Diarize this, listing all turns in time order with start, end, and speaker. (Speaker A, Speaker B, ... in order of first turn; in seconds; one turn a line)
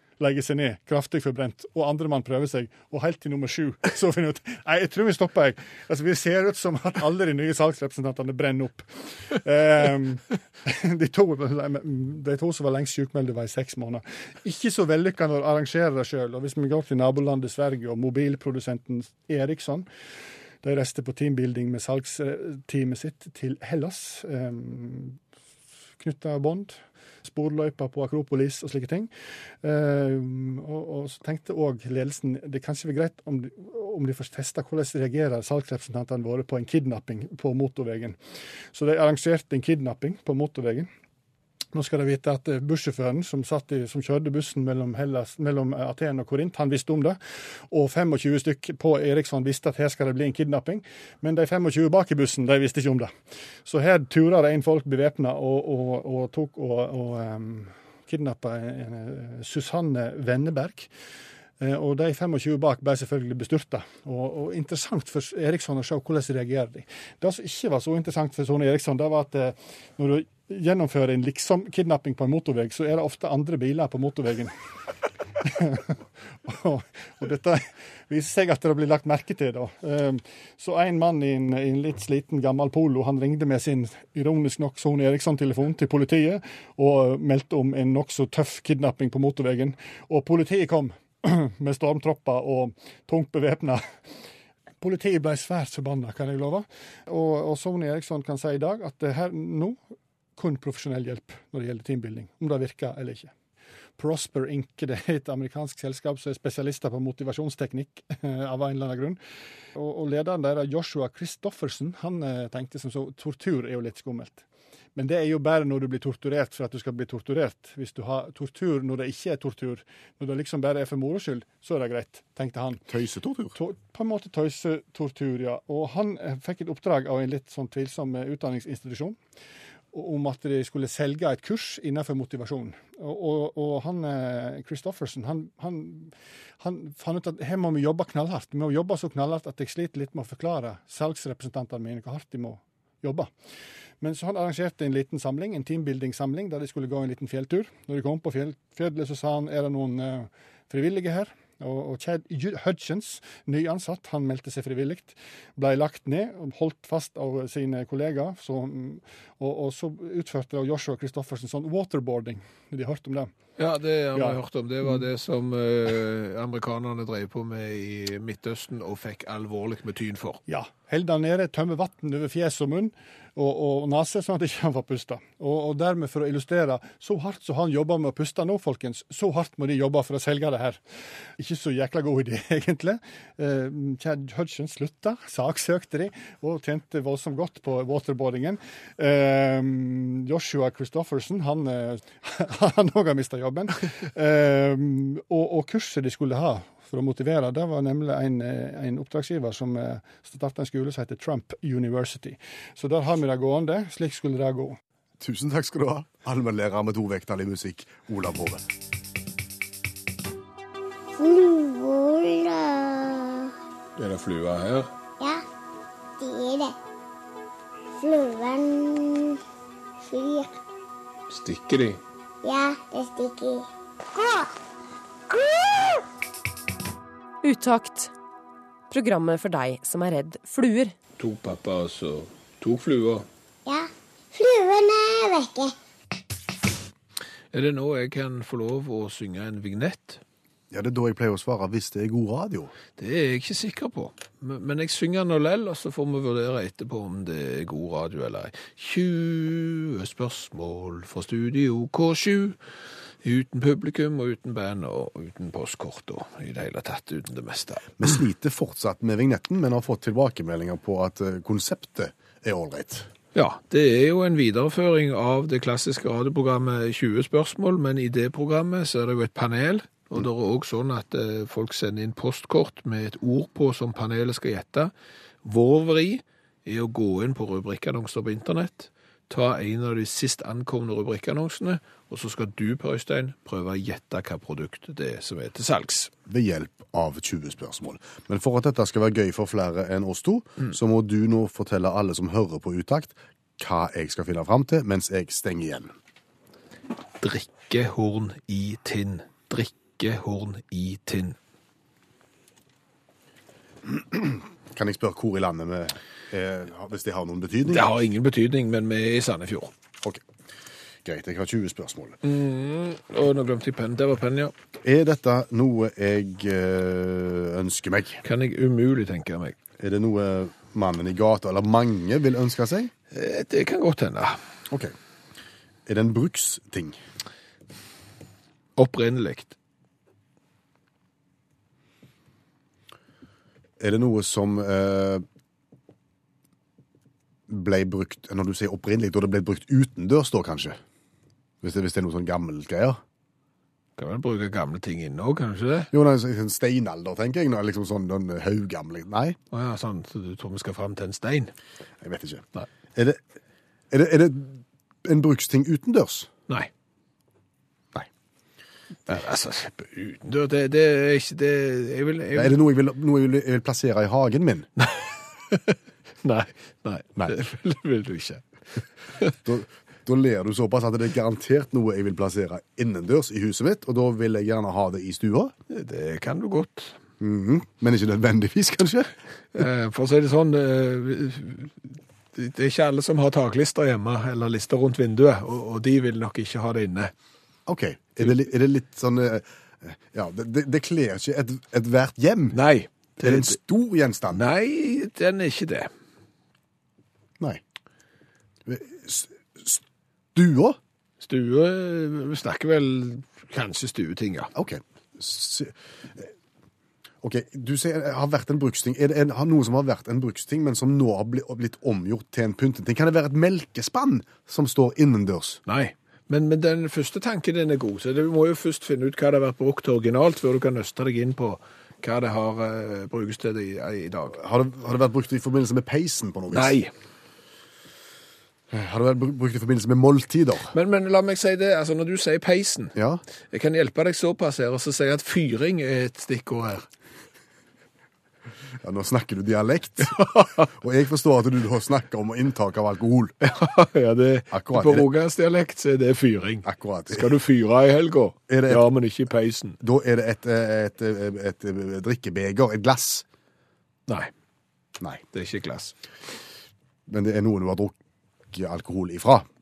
Speaker A: 0.2-19.9
Speaker A: 20.6-25.2
Speaker A: 26.0-29.1
Speaker A: 29.6-38.2
Speaker A: 38.7-40.9
Speaker A: 41.7-47.2
Speaker A: 47.7-53.1
Speaker A: 53.6-60.9
Speaker A: 61.6-74.5
Speaker A: 75.4-93.8
Speaker A: 94.8-99.8
Speaker A: 100.4-103.3
Speaker A: 104.0-109.2
Speaker A: 109.8-114.4
Speaker A: 115.0-122.8
Speaker B: 122.9-123.6
Speaker A: 123.6-129.2
Speaker A: 129.9-143.3
Speaker A: 144.0-163.3
Speaker C: 163.6-170.4
Speaker A: 170.5-180.8
Speaker A: 181.4-204.8
Speaker B: 205.2-208.6
Speaker D: 211.2-213.5
Speaker C: 214.0-214.9
Speaker D: 216.2-216.8
Speaker D: 218.0-219.4
Speaker D: 220.0-220.5
Speaker C: 221.3-222.0
Speaker D: 222.4-223.7
Speaker D: 224.2-224.5
Speaker E: 227.4-228.1
Speaker E: 228.9-230.9
Speaker C: 231.2-233.3
Speaker D: 233.7-235.8
Speaker C: 237.5-240.2
Speaker B: 240.7-242.7
Speaker C: 243.0-252.6
Speaker C: 253.2-258.0
Speaker B: 258.0-263.1
Speaker C: 263.3-274.9
Speaker C: 275.4-286.1
Speaker B: 286.3-295.9
Speaker C: 297.2-301.4
Speaker B: 303.9-307.9
Speaker C: 307.7-309.7
Speaker B: 311.0-312.2
Speaker C: 312.2-314.5
Speaker B: 314.8-318.2
Speaker C: 318.2-319.6
Speaker B: 319.8-322.9
Speaker C: 323.1-324.4
Speaker B: 324.7-324.9
Speaker B: 325.9-327.0
Speaker C: 328.8-329.6
Speaker B: 333.8-335.2
Speaker B: 337.5-340.8
Speaker B: 341.6-343.0
Speaker C: 344.0-345.9
Speaker B: 345.9-349.4
Speaker C: 349.5-351.5
Speaker B: 352.0-353.2
Speaker B: 353.9-356.3
Speaker C: 359.1-362.6
Speaker B: 362.3-364.7
Speaker C: 364.8-368.4
Speaker B: 369.4-375.5
Speaker C: 375.7-377.0
Speaker B: 377.2-379.1
Speaker C: 379.6-387.1
Speaker B: 387.7-392.6
Speaker C: 392.5-393.6
Speaker B: 393.2-394.4
Speaker C: 394.3-395.9
Speaker B: 398.6-399.8
Speaker B: 400.4-400.8
Speaker C: 401.2-404.5
Speaker B: 404.5-406.3
Speaker B: 407.2-415.6
Speaker C: 415.7-424.4
Speaker B: 424.3-426.8
Speaker C: 426.5-426.9
Speaker B: 428.7-430.7
Speaker C: 430.7-432.9
Speaker B: 432.9-433.2
Speaker C: 433.5-436.9
Speaker B: 438.8-443.4
Speaker C: 440.2-440.6
Speaker C: 443.4-449.8
Speaker B: 444.5-445.1
Speaker B: 446.6-447.3
Speaker B: 448.5-448.9
Speaker B: 449.8-453.3
Speaker C: 455.3-455.9
Speaker B: 457.1-458.0
Speaker B: 458.5-459.5